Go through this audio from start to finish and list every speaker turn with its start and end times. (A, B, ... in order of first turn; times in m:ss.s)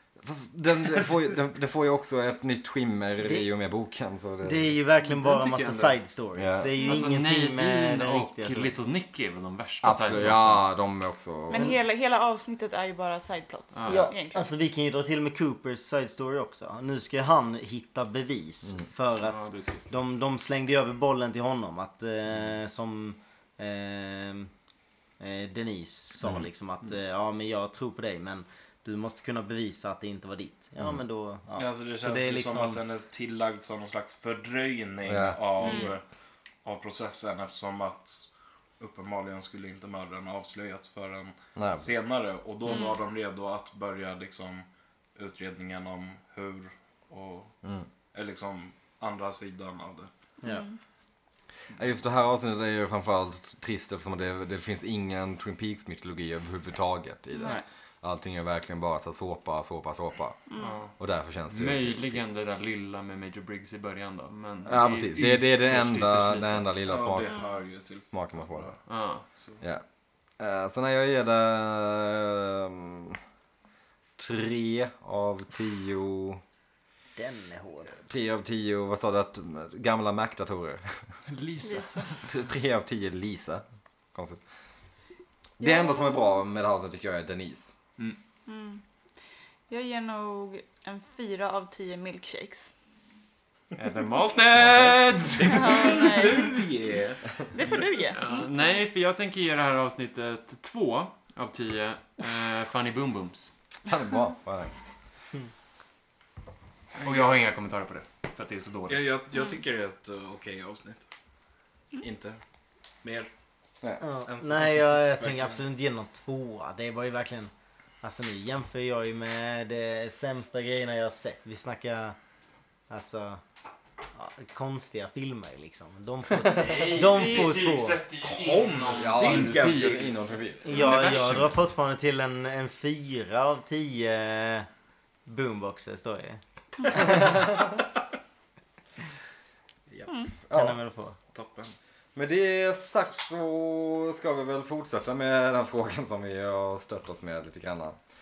0:00.2-0:04.8 A
0:03.2-0:03.5 B
0:04.4-0:08.7 B
0:05.0-0:06.0 C
0:06.4-0:06.7 A
0:06.8-0:10.6 C
0:09.8-0:11.7 A
0:11.5-0:14.5 D
0:13.7-0:14.1 C
0:13.8-0:24.5 B
0:19.1-0:19.9 C
0:25.2-0:32.8 B
0:31.5-0:36.0 E
0:35.0-0:35.4 A
0:35.6-0:35.9 B
0:35.6-0:35.9 D
0:36.6-0:38.2 E
0:38.8-0:47.5 E
0:41.6-0:41.8 A
0:48.1-0:50.1 E
0:50.4-0:50.8 D
0:51.8-1:00.4 A
0:57.3-0:57.6 D
1:00.5-1:00.8 D
1:00.6-1:00.9 C
1:01.0-1:02.3 A
1:01.5-1:06.7 C
1:04.6-1:07.5 A
1:06.8-1:08.7 E
1:08.1-1:08.7 A
1:08.9-1:09.2 C
1:10.4-1:13.2 A
1:14.2-1:16.4 A
1:17.2-1:17.9 B
1:18.1-1:21.0 A
1:21.3-1:22.2 C
1:21.6-1:22.1 D
1:22.2-1:23.6 A
1:24.1-1:24.4 A
1:25.6-1:26.3 D
1:25.6-1:27.7 A
1:28.5-1:28.8 D
1:29.7-1:32.7 D
1:33.8-1:36.0 C
1:34.6-1:35.0 A
1:35.4-1:37.4 E
1:35.5-1:36.6 D
1:37.5-1:38.5 D
1:38.1-1:43.5 C
1:43.8-1:44.7 A
1:46.9-1:47.4 E
1:47.0-1:49.1 C
1:48.9-1:51.0 E
1:52.0-1:52.4 E
1:53.0-1:53.3 E
1:54.0-1:57.5 B
1:54.2-1:55.6 E
1:58.0-2:02.2 B
2:02.9-2:03.4 B
2:04.1-2:08.0 B
2:06.4-2:11.6 C
2:08.2-2:10.3 E
2:09.0-2:10.8 A
2:10.6-2:14.7 B
2:10.7-2:11.0 D
2:15.2-2:17.5 B
2:20.1-2:20.3 D
2:20.5-2:20.8 A
2:20.5-2:21.2 B
2:21.3-2:21.7 E
2:22.1-2:28.0 A